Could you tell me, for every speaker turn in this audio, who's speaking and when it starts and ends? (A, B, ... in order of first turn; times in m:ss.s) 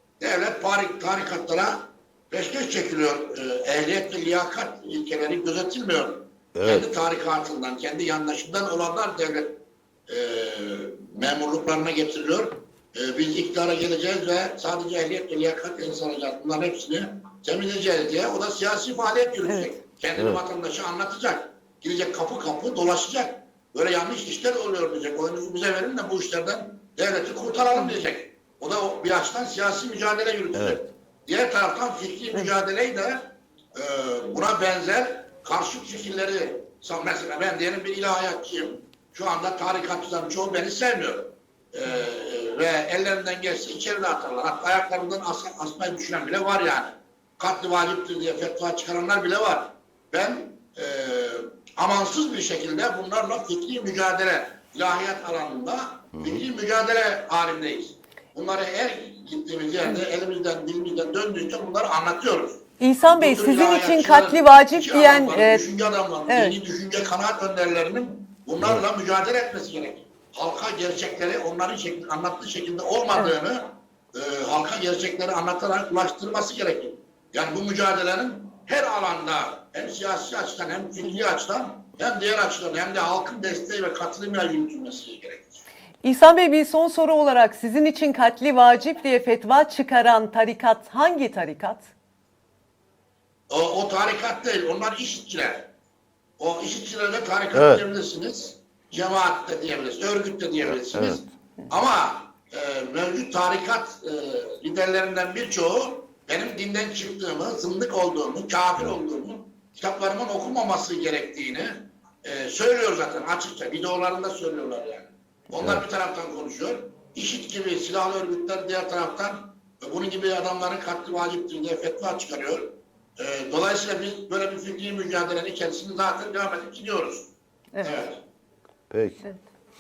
0:00.2-1:25.6 A
0:06.5-0:06.9 B
0:19.4-0:19.7 C
0:27.7-0:28.0 C
0:30.5-0:30.8 B
0:56.1-0:56.4 B
1:02.8-1:05.7 C
1:06.3-1:06.6 C
1:26.0-1:31.9 C
1:33.5-1:35.7 A
1:36.4-2:07.3 A
1:37.5-1:37.8 B
1:40.7-1:41.2 B
1:55.6-1:55.8 B
2:07.7-2:08.1 C
2:07.8-2:08.2 A
2:08.9-2:09.2 B